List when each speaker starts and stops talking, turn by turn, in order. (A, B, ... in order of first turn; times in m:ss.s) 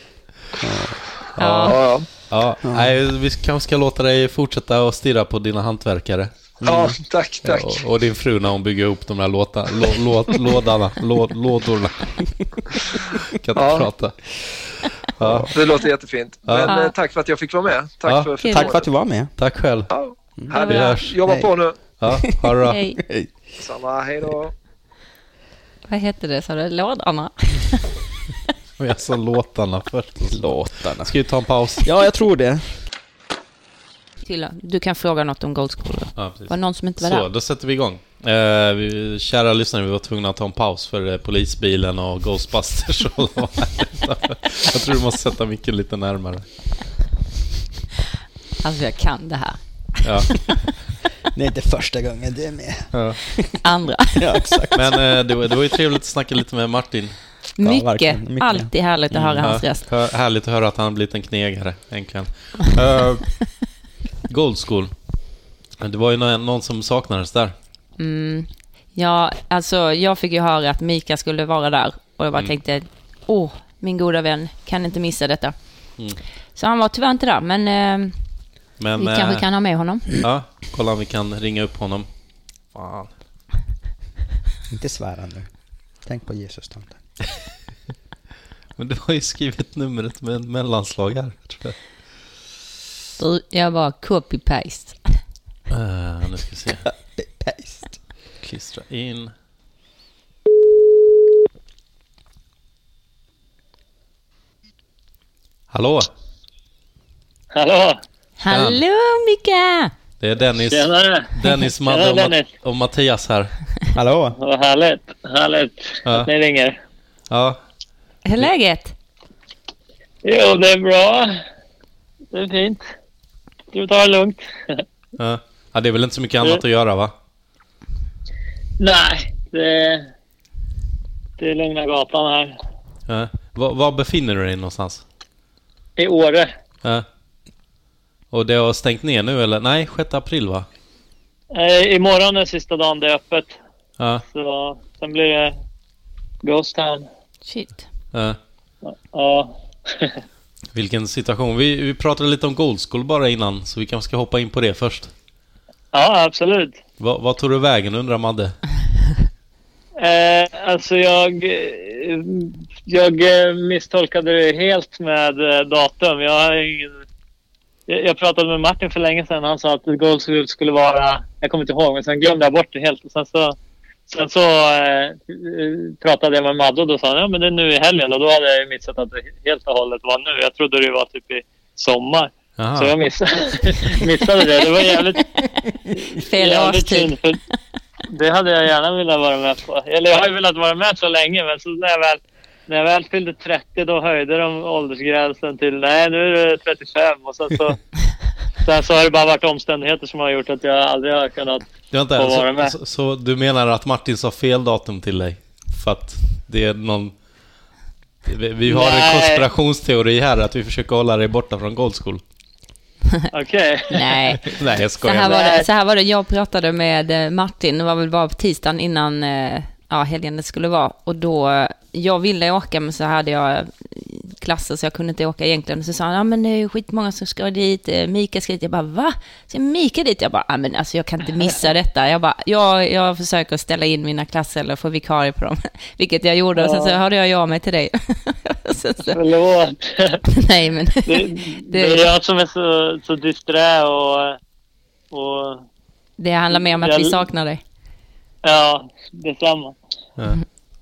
0:00.6-0:01.8 A
0:01.4-0:01.8 B
0:01.7-0:02.1 C
0:02.3-0:06.3 D
0:02.6-0:02.9 A
0:06.6-0:07.0 A
0:06.6-0:07.8 C
0:07.4-0:12.2 D
0:13.3-0:14.3 D
0:13.5-0:13.9 C
0:15.2-0:15.5 D
0:15.2-0:15.5 A
0:15.5-0:18.9 C
0:16.4-0:16.8 D
0:16.6-0:16.9 B
0:18.0-0:18.3 D
0:18.4-0:18.7 B
0:18.5-0:19.4 A
0:19.4-0:19.9 D
0:19.9-0:21.9 C
0:20.5-0:21.0 B
0:20.6-0:21.2 D
0:21.2-0:23.3 A
0:22.0-0:22.8 D
0:22.6-0:23.0 B
0:23.6-0:24.5 C
0:25.9-0:27.8 B
0:28.8-0:31.9 D
0:30.3-0:31.2 A
0:31.8-0:32.6 A
0:34.2-0:37.3 B
0:36.2-0:46.4 D
0:48.6-0:50.3 B
0:50.0-0:50.5 D
0:51.3-0:53.4 A
0:52.9-0:53.2 D
0:53.6-0:54.4 B
0:54.1-0:55.2 A
0:54.7-0:57.2 D
0:57.6-0:59.8 B
0:57.6-0:58.7 A
0:59.1-1:03.4 D
1:04.3-1:04.9 D
1:05.8-1:07.5 D
1:08.0-1:15.5 B
1:16.6-1:18.1 B
1:18.8-1:19.5 D
1:19.0-1:20.1 B
1:20.2-1:22.1 D
1:22.7-1:23.1 D
1:24.7-1:25.5 A
1:26.0-1:27.0 A
1:28.8-1:31.8 D
1:33.2-1:35.0 B
1:35.7-1:36.8 D
1:37.1-1:38.0 A
1:38.4-1:39.3 D
1:45.7-1:46.1 D
1:47.5-1:48.0 E
1:48.4-1:49.9 B
1:48.5-1:48.8 D
1:50.2-1:53.5 D
1:50.6-1:52.5 E
1:53.9-1:54.4 A
1:54.4-1:56.8 E
1:57.3-1:57.6 D
1:58.2-1:58.9 B
2:00.2-2:01.4 E
2:02.3-2:02.8 E
2:03.7-2:04.8 E
2:05.2-2:07.1 D
2:08.8-2:10.1 E
2:11.4-2:12.6 E
2:13.1-2:15.0 D
2:16.0-2:16.5 E
2:18.3-2:20.7 D
2:21.5-2:23.6 E
2:24.3-2:25.5 E
2:26.4-2:27.0 E
2:27.4-2:27.8 B
2:28.1-2:28.4 D
2:28.8-2:30.2 E
2:30.7-2:35.1 D
2:35.9-2:36.8 E
2:37.0-2:38.6 D
2:40.0-2:47.0 E
2:47.9-2:53.6 E
2:54.1-3:05.2 E
3:02.6-3:02.9 D
3:06.1-3:07.1 B
3:06.4-3:07.4 E
3:08.1-3:17.8 E
3:18.6-3:22.8 E
3:21.9-3:27.1 D
3:28.2-3:32.2 D
3:28.6-3:29.4 E
3:33.3-3:34.1 E
3:33.9-3:59.2 B
3:34.5-3:35.3 D
3:35.1-3:35.7 E
3:56.5-3:57.0 E
3:59.1-4:00.2 E
4:00.4-4:02.0 B
4:01.0-4:04.4 E
4:05.1-4:05.6 E
4:06.2-4:07.6 B
4:06.5-4:07.2 E
4:08.4-4:09.8 E